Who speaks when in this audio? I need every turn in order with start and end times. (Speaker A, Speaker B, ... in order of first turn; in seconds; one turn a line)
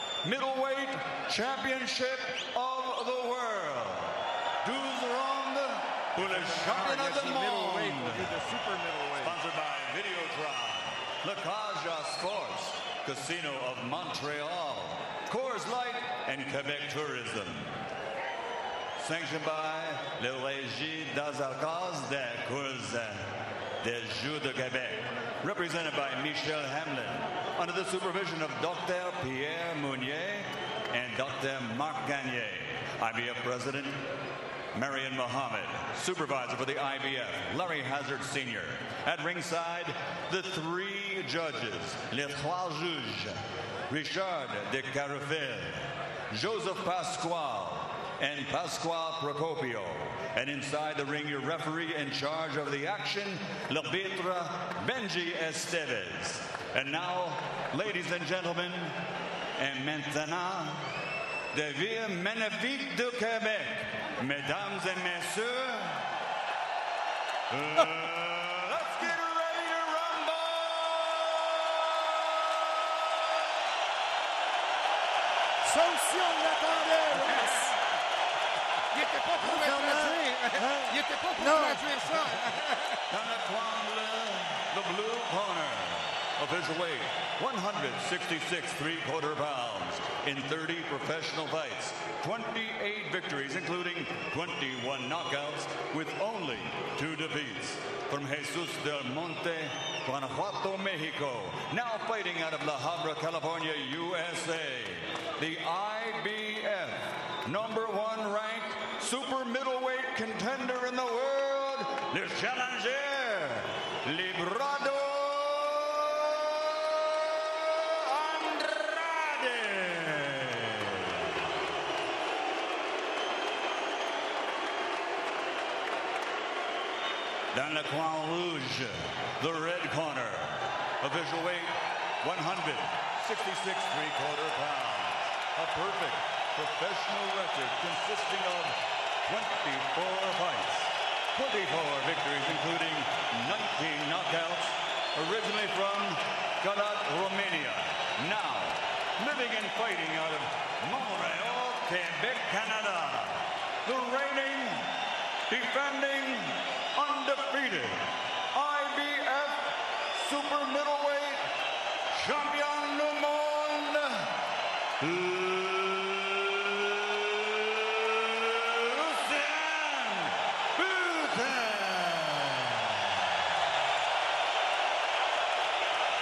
Speaker A: 0.2-8.4
Speaker B: 6.3-9.4
Speaker A: 9.2-17.8
Speaker A: 19.0-23.3
Speaker A: 23.8-34.0
Speaker A: 34.7-59.0
Speaker A: 59.6-60.9
Speaker A: 61.5-66.0
Speaker A: 67.5-73.5
Speaker C: 75.6-77.8
Speaker B: 77.4-77.7
Speaker B: 78.9-82.9
Speaker C: 79.4-82.5
Speaker A: 83.1-121.6
Speaker A: 127.5-154.9
Speaker A: 155.5-161.5
Speaker A: 162.1-164.3
Speaker A: 165.0-173.3